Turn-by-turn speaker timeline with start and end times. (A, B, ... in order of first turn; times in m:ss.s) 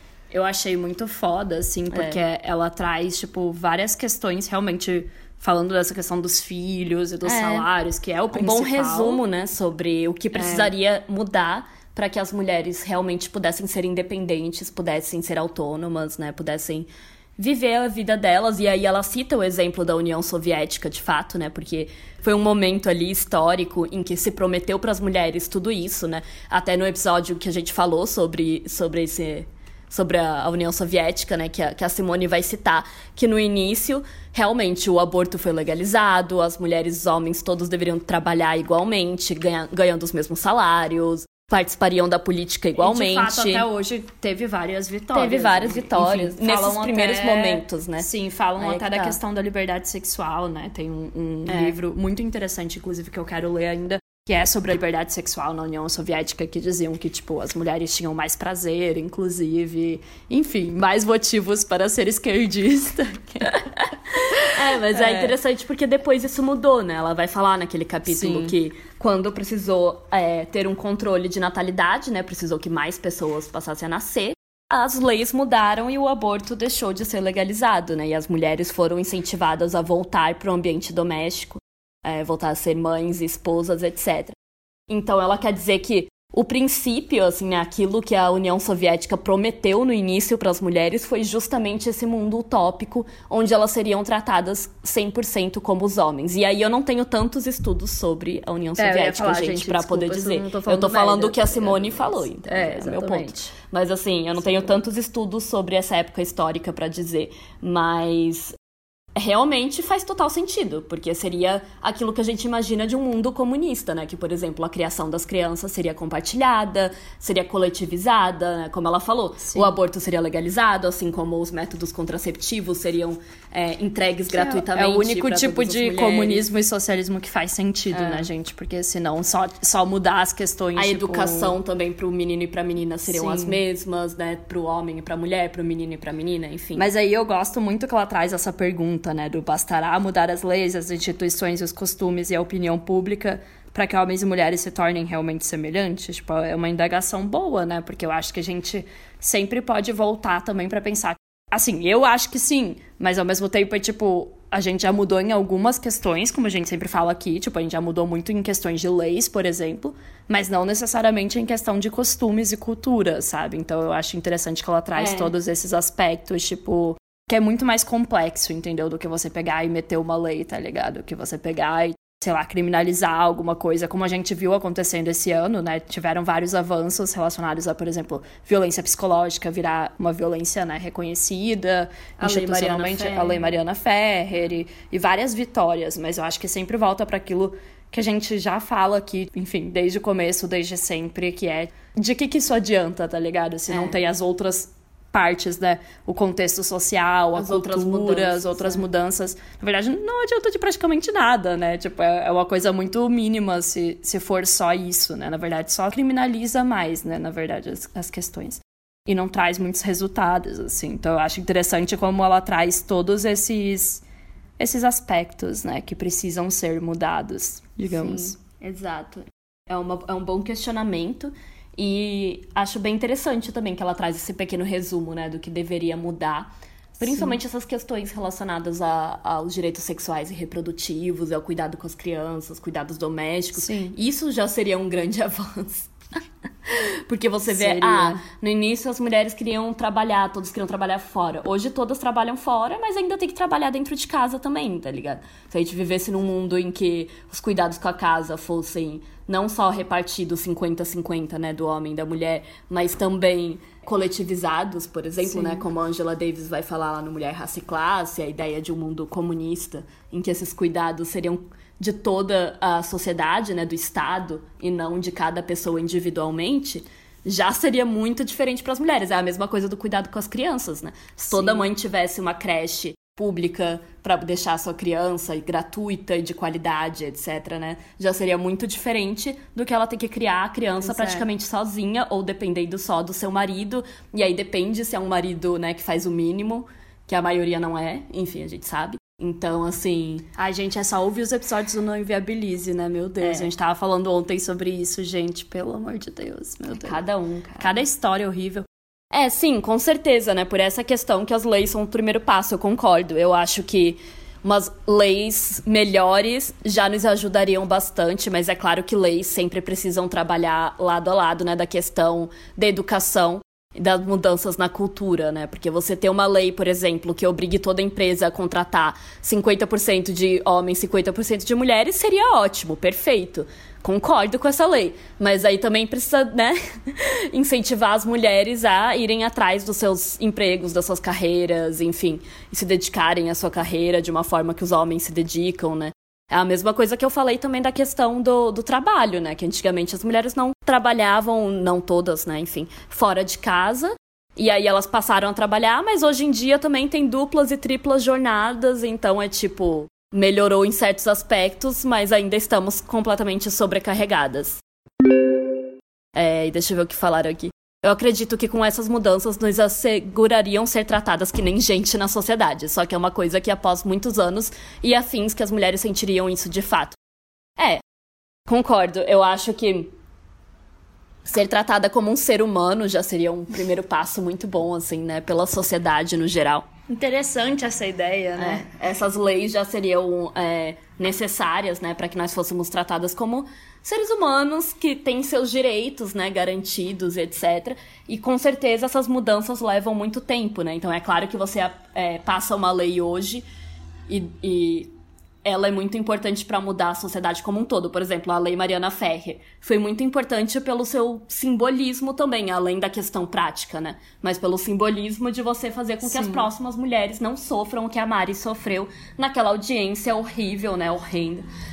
0:00.3-0:09.2 A
0:01.9-0:02.2 B
0:07.2-0:07.7 B
0:08.3-0:43.6 B
0:10.3-0:10.7 A
0:42.8-1:04.2 A
0:45.1-0:49.2 B
0:51.5-0:51.8 B
1:04.5-1:24.3 B
1:04.9-1:05.3 A
1:08.1-1:08.5 A
1:24.9-1:48.6 B
1:38.8-1:43.5 A
1:49.2-2:06.5 B
1:59.4-1:59.7 A
2:04.3-2:11.5 A
2:07.9-2:08.3 B
2:10.8-2:16.9 B
2:13.1-2:13.6 A
2:16.8-3:34.0 A
2:45.0-2:45.3 B
3:02.2-3:03.4 B
3:13.7-3:14.0 B
3:17.4-3:18.8 B
3:34.6-3:38.4 A
3:37.9-3:55.9 B
3:53.5-3:54.0 A
3:56.6-4:50.2 B
3:57.5-3:58.2 A
4:15.3-4:15.6 A
4:31.3-4:31.6 A
4:40.8-4:41.2 A
4:50.4-4:57.0 A
4:53.2-4:53.5 B
4:56.8-4:57.8 B
4:57.6-4:58.6 A
4:59.1-5:54.6 B
5:56.1-6:07.0 B
6:07.6-6:07.8 B
6:08.5-6:09.9 B
6:11.2-6:16.7 B
6:16.9-6:18.6 A
6:18.4-6:33.4 B
6:34.1-6:34.9 B
6:35.4-6:51.4 B
6:46.0-6:46.5 A